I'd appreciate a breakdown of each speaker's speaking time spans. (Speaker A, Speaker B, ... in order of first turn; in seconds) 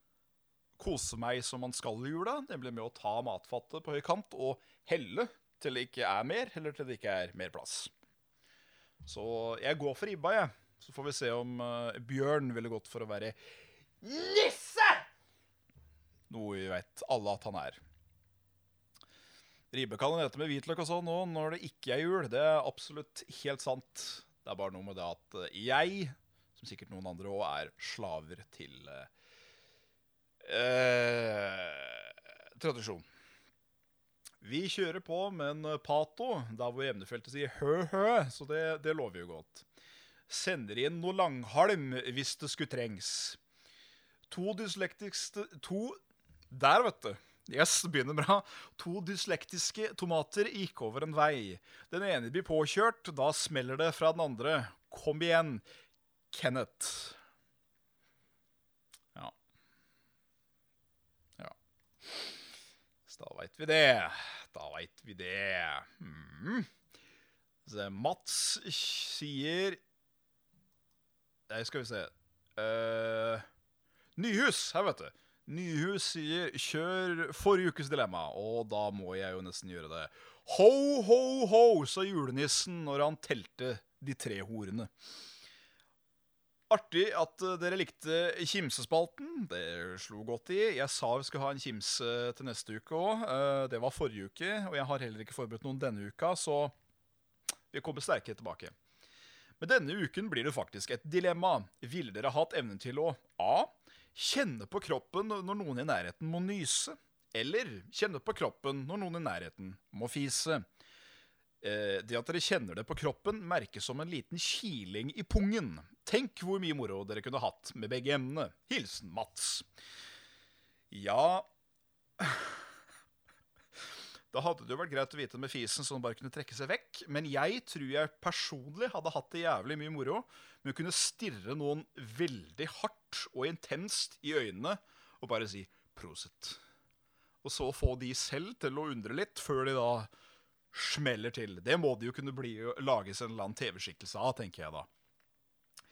Speaker A: 0.8-7.9, 9.0-13.3, 14.0-15.1, 16.3-17.8, 19.7-29.1, 30.4-33.0, 34.4-39.6, 40.3-43.4, 44.3-46.0, 46.5-55.6, 56.3-57.2, 61.4-62.4, 63.0-66.7, 67.7-69.8, 71.5-73.5, 74.2-84.9, 86.7-96.7, 97.7-98.7, 99.6-110.6, 111.6-119.7, 120.9-121.5, 122.2-122.6, 124.3-136.6, 137.4-140.1, 140.7-144.9